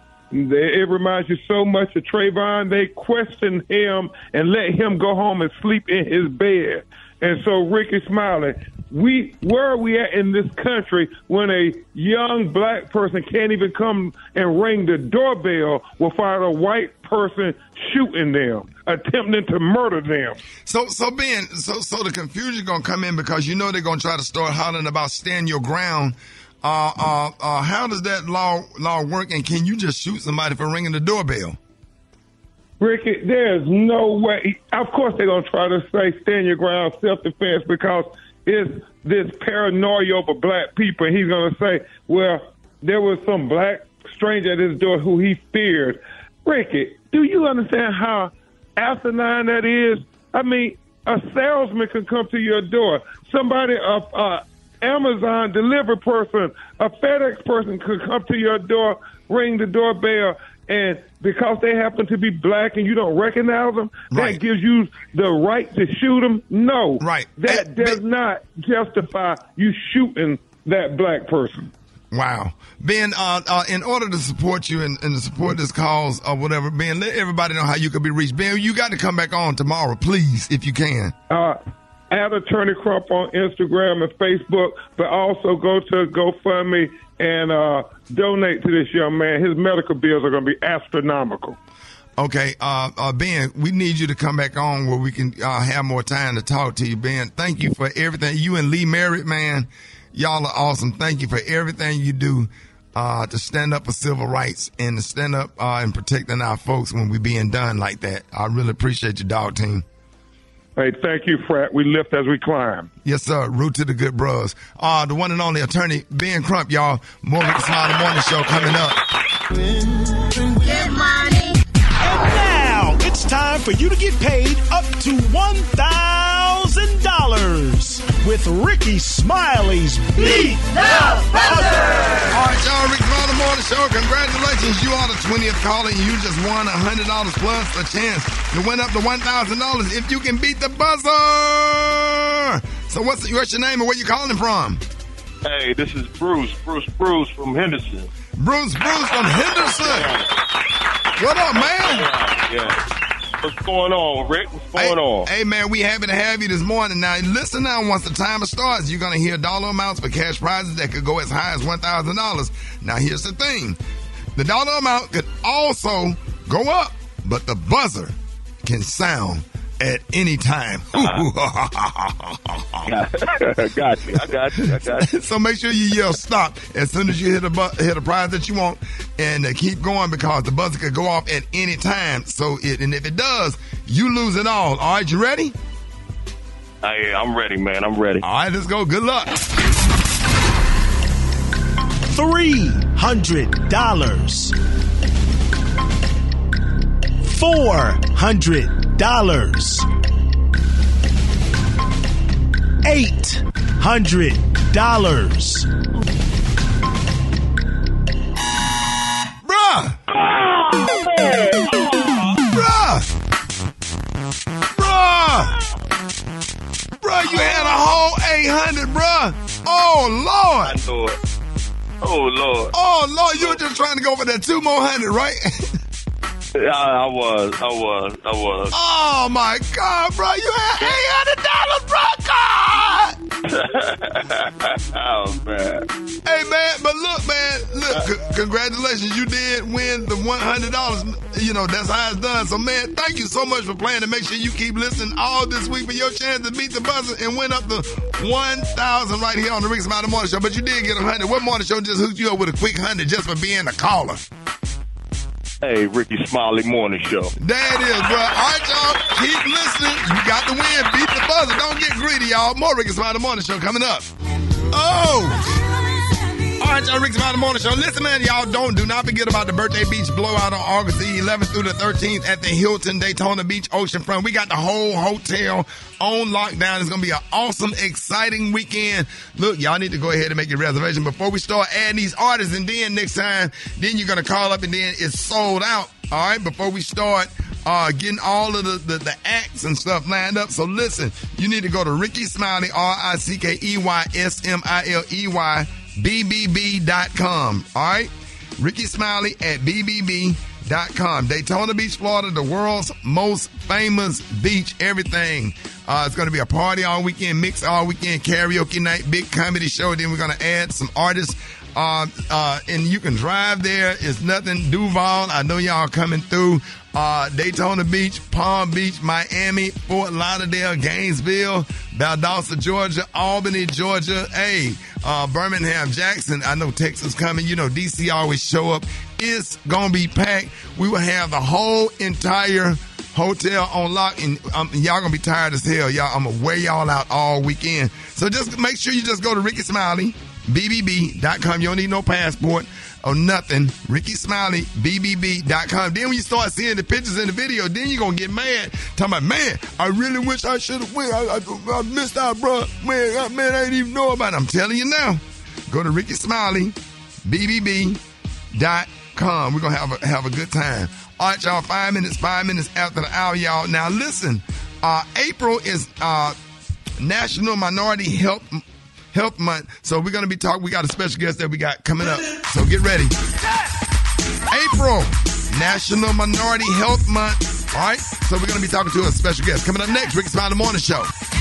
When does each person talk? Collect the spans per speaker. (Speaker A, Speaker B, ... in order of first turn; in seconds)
Speaker A: 0.3-20.4, 32.8-71.7, 81.3-81.6, 82.1-91.6, 110.8-112.9
Speaker B: 20.6-31.6, 64.1-64.4, 67.0-68.0, 72.1-81.1, 92.2-109.8, 113.0-119.0, 132.3-144.8, 148.4-150.1, 151.2-152.1, 154.7-163.8, 164.3-172.9, 174.6-185.5, 188.2-189.3, 209.4-210.0, 212.5-213.1, 214.7-215.5, 217.0-220.8, 222.7-225.7, 228.7-233.1, 236.2-254.2, 257.4-264.1, 264.7-265.4, 266.6-358.0, 358.5-366.4, 367.0-373.1, 374.5-381.1
Speaker C: 119.5-121.3, 122.0-131.9, 192.1-194.5, 197.2-199.8, 202.8-205.7
Speaker D: 145.4-148.1, 149.7-150.3, 151.6-152.8, 153.4-155.3, 172.9-175.1, 186.8-188.2, 220.6-221.2, 222.0-222.7, 226.6-228.7, 233.5-235.8, 255.6-257.3